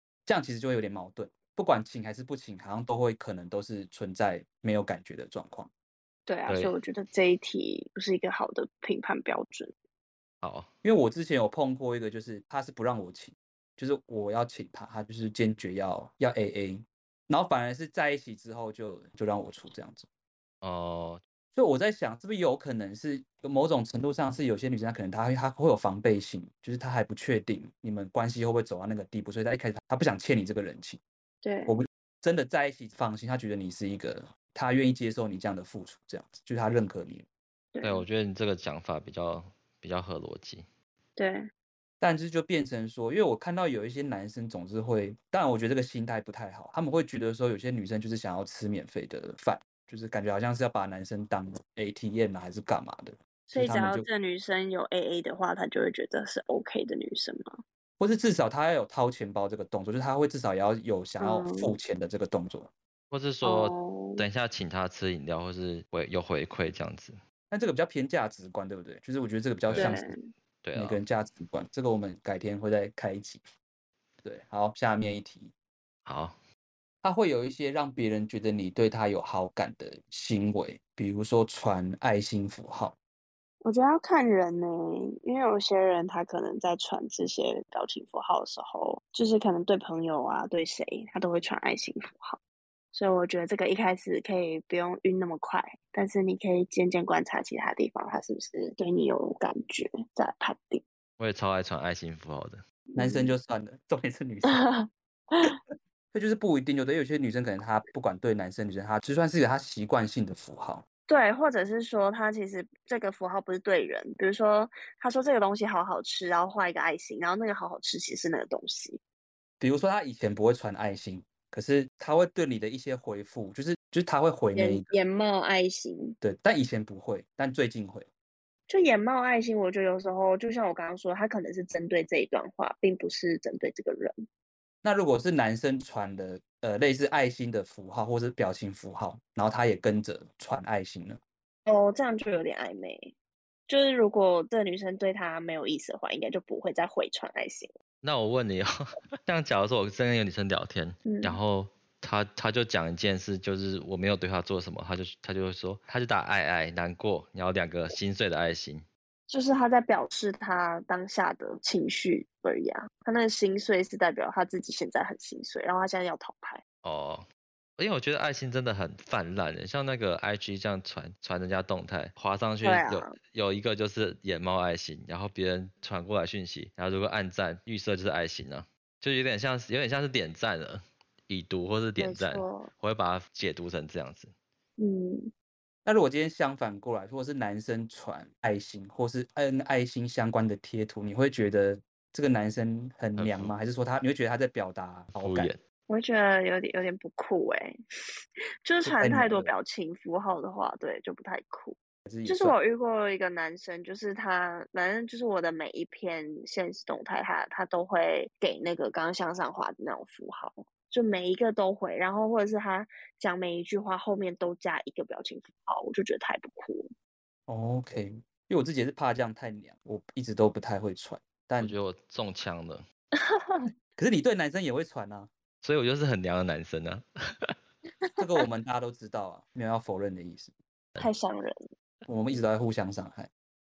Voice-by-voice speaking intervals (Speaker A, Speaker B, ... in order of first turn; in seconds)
Speaker A: 0.2-5.7, 10.8-20.1, 21.5-31.0, 31.6-37.2, 42.0-54.1, 58.0-62.7, 67.5-70.1, 70.7-73.4, 74.2-75.5, 77.0-83.0, 103.0-104.6, 106.1-110.8, 119.6-124.9, 126.2-128.1, 134.8-141.2, 185.8-195.5, 198.8-199.5, 202.1-202.6, 217.5-221.8, 224.0-225.3, 228.2-230.5, 232.1-233.3
Speaker B: 6.3-9.7, 31.4-31.8, 37.7-38.0, 41.2-41.5, 53.5-57.6, 61.2-61.7, 63.4-64.2, 69.7-70.3, 83.6-92.4, 92.9-100.8, 102.9-103.3, 104.4-105.5, 111.1-119.0, 124.5-126.2, 128.7-134.1, 141.7-143.1, 143.7-147.7, 151.1-151.4, 159.3-166.6, 172.6-173.1, 182.0-182.7, 184.8-185.3, 195.9-197.8, 198.6-216.9, 223.2-223.7, 231.0-231.6
Speaker C: 6.5-6.7, 10.4-10.7, 20.6-21.2, 37.8-40.6, 63.1-67.2, 69.6-70.0, 70.6-71.0, 76.0-76.4, 101.2-102.6, 148.0-158.8, 166.8-167.2, 167.8-184.3, 193.2-193.5, 195.1-195.6, 221.6-222.8, 225.6-227.5